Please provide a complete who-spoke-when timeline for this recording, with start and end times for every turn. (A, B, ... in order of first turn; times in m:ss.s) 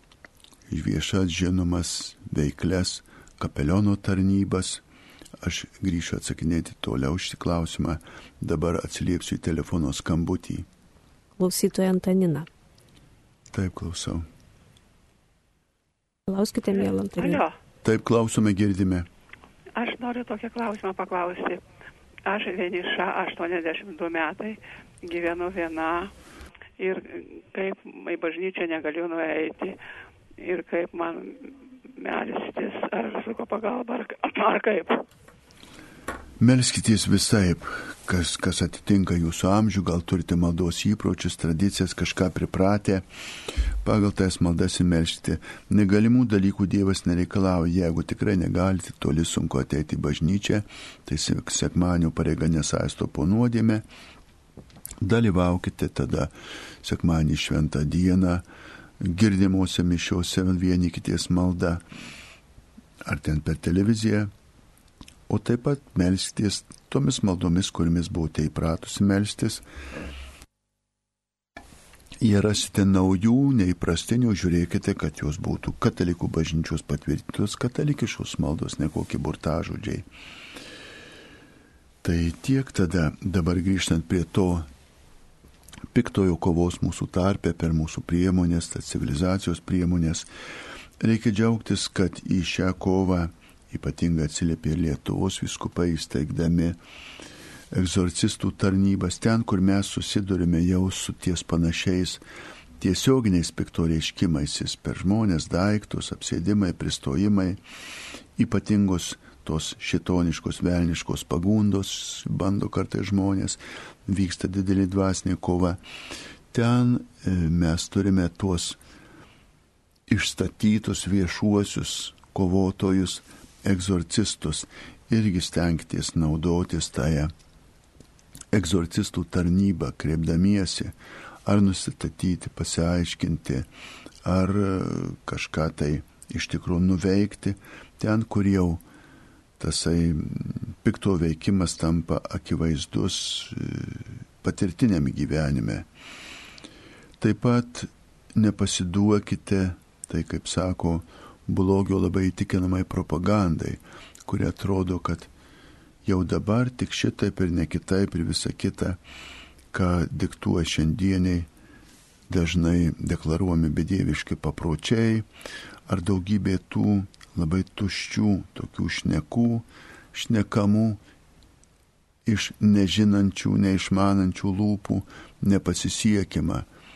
0:00.7-0:04.8 A
0:05.4-0:10.7 A
0:11.4-0:12.5 B
0:13.5-0:14.3 A
0:16.3-0:17.4 B
0:16.7-0:17.6 C
0:17.8-0:19.1 A
0:19.8-0:21.6 C
0:22.3-0:26.1 C
0:26.8-0:29.8 C
0:30.4-0:35.0 C
0:36.4-0:43.0 A
0:43.8-0:53.8 A
0:55.0-0:56.3 A
0:56.8-0:58.4 A
0:59.0-1:01.8 A
1:03.0-1:04.3 A
1:05.3-1:09.6 A
1:12.2-1:20.1 A
1:22.0-1:24.7 A
1:25.9-1:30.3 A
1:31.0-1:36.8 A
1:37.7-1:42.2 A
1:42.8-1:47.6 A
1:48.4-1:55.8 A
1:56.5-1:58.8 A
2:00.1-2:07.3 A
2:08.5-2:10.9 A
2:11.5-2:13.7 A
2:14.2-2:18.8 A
2:19.6-2:25.9 A
2:27.2-2:35.3 A
2:36.0-2:39.0 A
2:39.7-2:41.5 A
2:42.3-2:45.3 A
2:45.9-2:51.0 A
2:52.3-2:56.7 A